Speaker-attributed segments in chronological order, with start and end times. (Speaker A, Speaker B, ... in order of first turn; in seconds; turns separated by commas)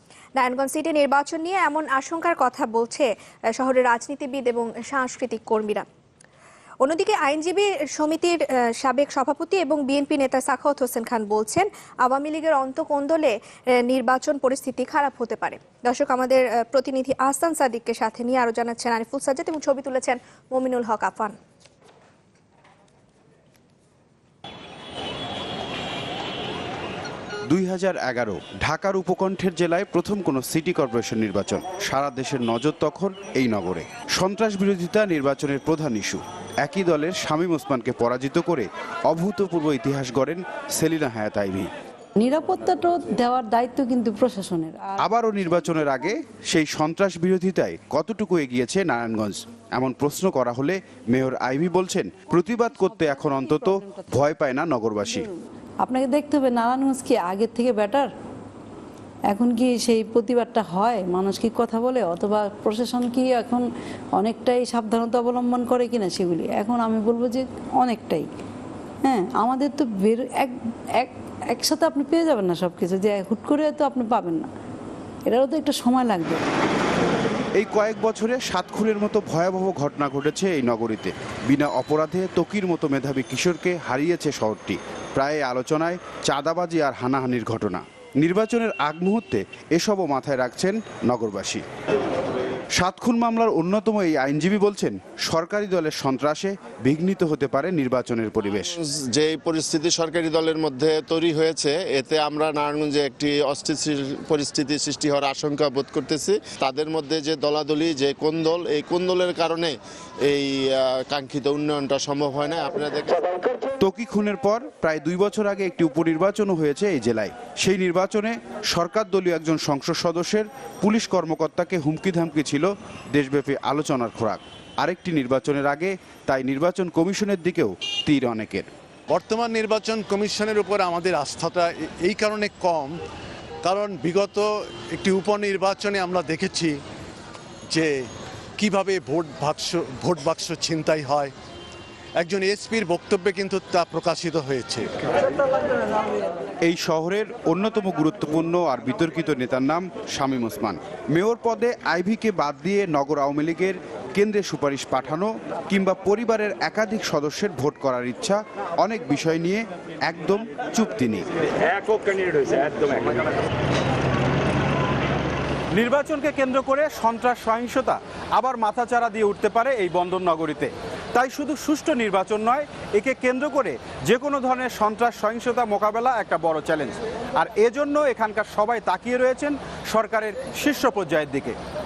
Speaker A: 0.4-5.9, Speaker A: 6.8-21.4, Speaker B: 27.5-41.7, Speaker C: 42.2-45.9, Speaker B: 45.0-55.3, Speaker C: 52.3-54.2, Speaker C: 55.0-58.1, Speaker C: 59.3-63.6, Speaker C: 64.2-68.3, Speaker C: 69.0-74.5, Speaker C: 75.3-76.4, Speaker B: 77.6-91.6, Speaker B: 92.8-98.7, Speaker D: 98.6-113.4, Speaker B: 113.8-128.7, Speaker E: 129.1-132.9, Speaker E: 133.6-136.8, Speaker E: 137.7-138.1, Speaker E: 138.6-141.3, Speaker E: 142.2-144.9, Speaker B: 146.6-163.1, Speaker B: 165.7-181.6